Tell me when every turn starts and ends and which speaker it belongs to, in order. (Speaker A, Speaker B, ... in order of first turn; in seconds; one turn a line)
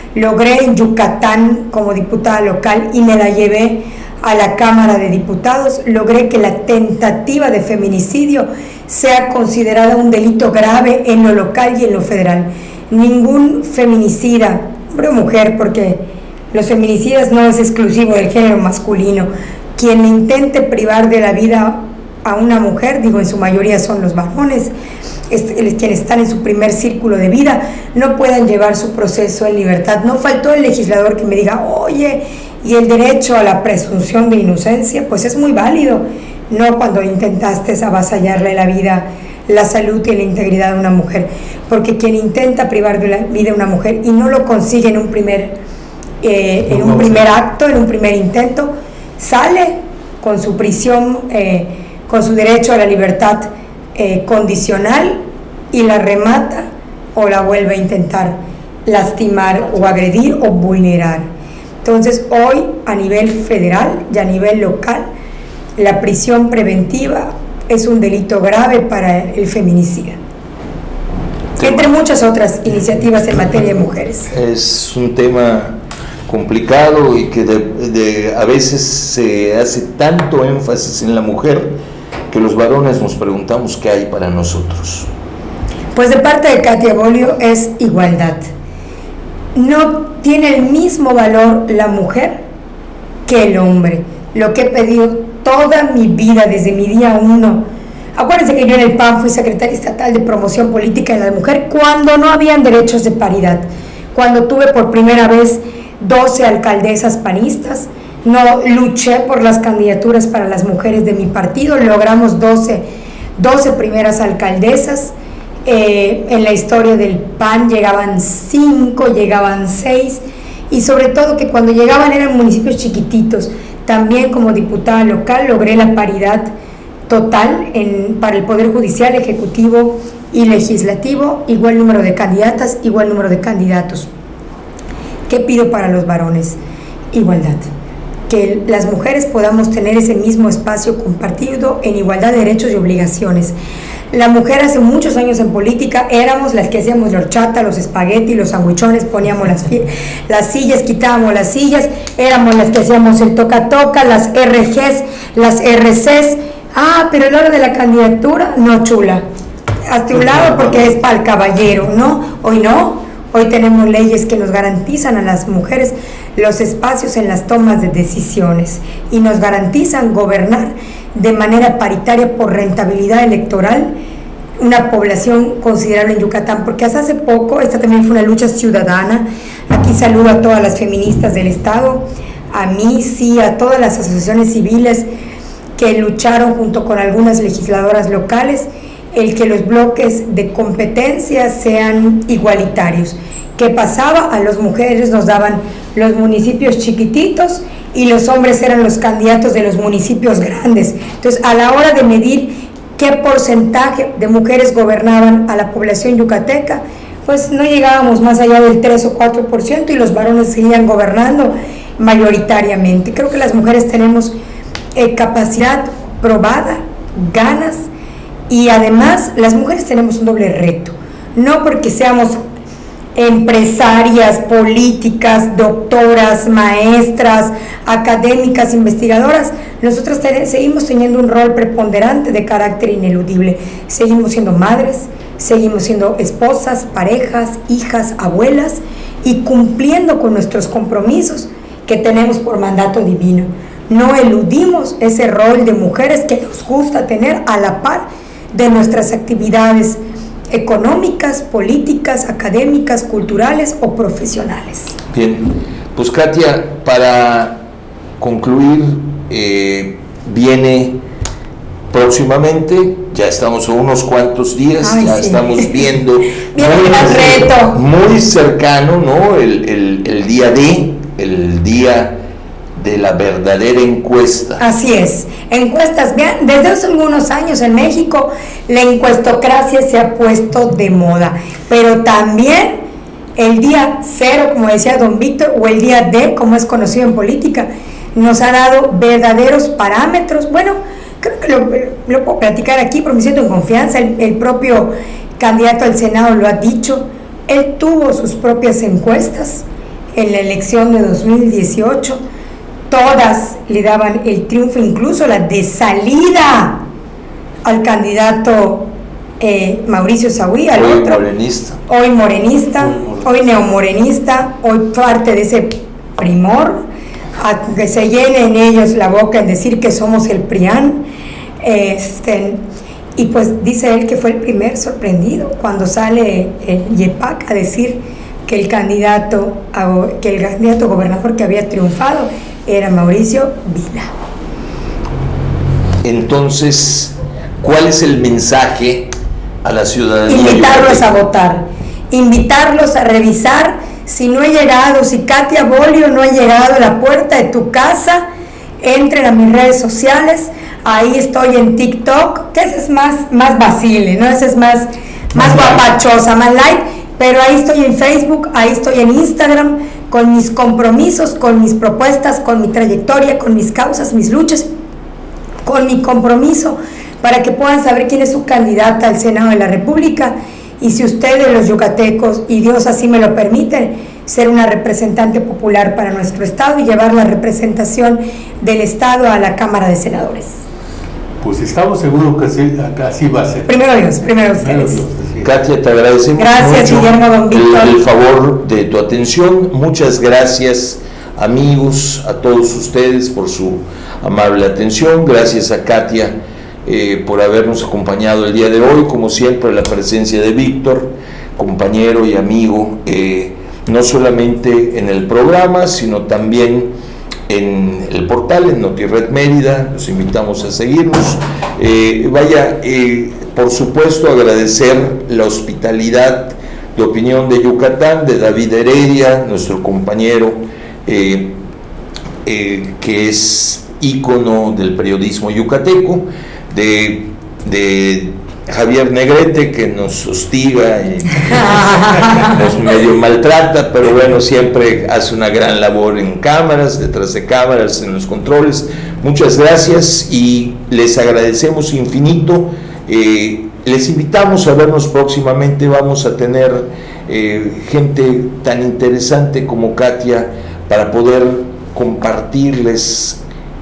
Speaker A: 0.1-16.0
Speaker A: 16.5-24.7
Speaker A: 25.3-45.6
Speaker A: 46.2-55.2
Speaker B: 46.7-47.2
Speaker A: 55.7-61.3
Speaker A: 61.8-65.1
Speaker A: 65.8-70.2
Speaker C: 71.6-71.9
Speaker A: 71.6-74.3
Speaker C: 74.3-81.8
Speaker C: 82.3-85.1
Speaker A: 85.9-88.4
Speaker A: 89.5-92.4
Speaker A: 93.3-97.6
Speaker A: 98.2-112.8
Speaker A: 113.4-115.1
Speaker A: 115.7-126.5
Speaker A: 127.1-134.1
Speaker A: 135.3-136.6
Speaker A: 137.1-137.7
Speaker A: 138.3-143.6
Speaker A: 144.1-159.2
Speaker A: 159.9-173.9
Speaker B: 160.1-160.9
Speaker A: 174.6-185.1
Speaker A: 185.8-214.3
Speaker A: 214.9-217.9
Speaker A: 218.5-222.4
Speaker A: 223.2-250.0
Speaker A: 250.5-254.9
Speaker C: 255.1-257.6
Speaker C: 258.2-261.0
Speaker C: 261.9-272.2
Speaker A: 264.8-267.8
Speaker C: 272.8-274.6
Speaker A: 274.6-282.8
Speaker A: 283.4-302.2
Speaker A: 302.9-306.8
Speaker A: 307.6-311.2
Speaker C: 310.7-311.8
Speaker A: 311.9-316.8
Speaker B: 312.9-313.2
Speaker A: 317.4-321.0
Speaker A: 321.6-322.6
Speaker A: 323.2-334.1
Speaker C: 336.0-339.1
Speaker C: 339.6-341.1
Speaker A: 340.3-348.2
Speaker A: 348.8-364.7
Speaker B: 355.3-355.8
Speaker A: 365.6-380.6
Speaker B: 381.4-383.7
Speaker A: 383.7-385.0
Speaker B: 384.3-385.5
Speaker C: 385.4-406.9
Speaker A: 386.4-388.0
Speaker C: 407.5-421.6
Speaker C: 422.4-453.4
Speaker A: 431.7-432.5